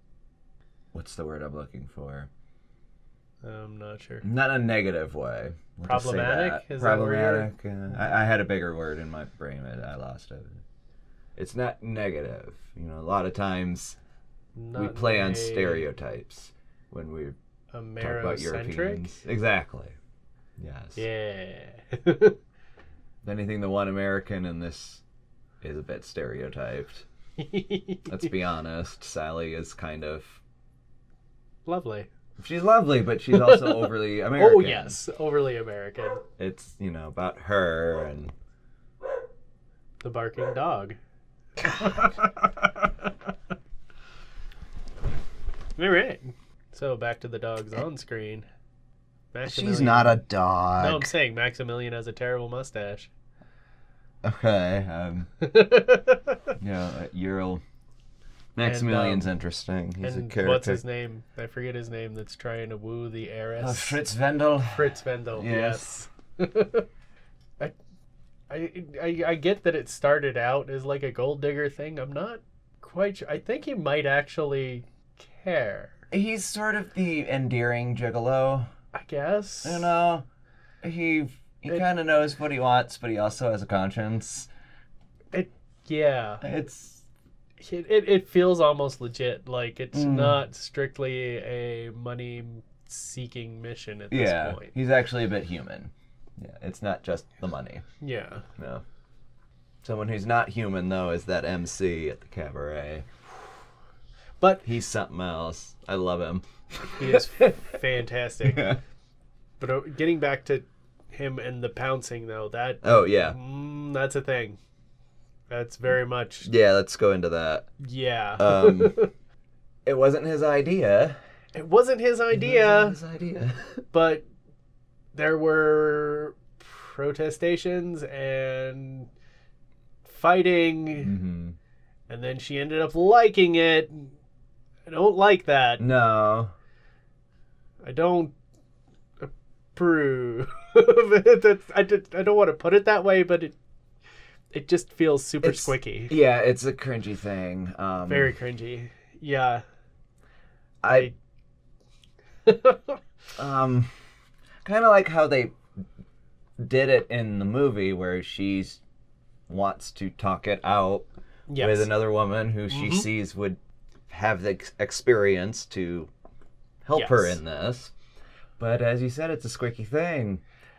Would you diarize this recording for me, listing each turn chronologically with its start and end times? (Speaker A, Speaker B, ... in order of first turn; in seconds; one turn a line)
Speaker A: 0.9-2.3
Speaker B: 3.4-4.2
Speaker A: 4.2-10.6
Speaker B: 5.9-7.5
Speaker A: 11.4-14.0
Speaker B: 14.6-15.9
Speaker A: 14.8-17.4
Speaker B: 17.7-19.1
Speaker A: 18.0-19.9
Speaker A: 20.6-21.0
Speaker B: 20.9-22.4
Speaker A: 23.2-25.0
Speaker A: 25.6-27.1
Speaker B: 27.4-28.3
Speaker A: 28.1-30.4
Speaker B: 31.7-32.1
Speaker A: 32.4-35.0
Speaker B: 33.3-36.2
Speaker A: 36.4-38.3
Speaker B: 40.0-41.0
Speaker B: 41.6-43.1
Speaker B: 45.8-48.5
Speaker B: 49.3-50.2
Speaker A: 49.5-51.1
Speaker B: 50.8-53.1
Speaker A: 54.2-55.3
Speaker B: 55.4-56.5
Speaker A: 56.6-57.6
Speaker A: 58.6-60.8
Speaker B: 58.6-59.3
Speaker B: 60.0-64.0
Speaker A: 63.6-66.0
Speaker B: 64.7-66.8
Speaker B: 68.5-76.0
Speaker A: 76.1-78.7
Speaker B: 78.9-79.9
Speaker A: 79.6-80.2
Speaker A: 80.8-84.5
Speaker B: 85.3-86.4
Speaker A: 86.4-87.0
Speaker B: 87.6-94.7
Speaker A: 89.9-90.4
Speaker A: 94.1-97.8
Speaker B: 98.0-98.5
Speaker A: 98.6-98.8
Speaker A: 99.8-103.1
Speaker A: 104.6-107.7
Speaker B: 107.0-108.8
Speaker A: 108.4-108.8
Speaker B: 109.6-114.6
Speaker A: 112.8-113.4
Speaker B: 115.5-116.5
Speaker A: 116.4-117.7
Speaker B: 117.8-119.1
Speaker A: 118.4-118.9
Speaker A: 119.8-121.2
Speaker B: 121.5-123.0
Speaker A: 122.3-123.8
Speaker B: 123.9-124.2
Speaker B: 125.1-129.1
Speaker B: 130.1-131.1
Speaker A: 131.0-131.6
Speaker B: 132.1-134.1
Speaker B: 134.9-135.8
Speaker A: 135.8-136.5
Speaker B: 137.8-138.3
Speaker B: 139.2-143.6
Speaker B: 144.5-146.1
Speaker A: 145.4-148.3
Speaker B: 148.1-149.6
Speaker A: 150.8-151.1
Speaker B: 150.9-151.1
Speaker B: 152.4-153.0
Speaker A: 153.4-153.9
Speaker A: 154.6-155.6
Speaker A: 156.6-158.8
Speaker A: 159.5-161.1
Speaker B: 161.5-161.9
Speaker A: 161.6-166.1
Speaker B: 162.7-163.1
Speaker A: 166.8-167.9
Speaker B: 166.9-167.4
Speaker A: 168.6-170.4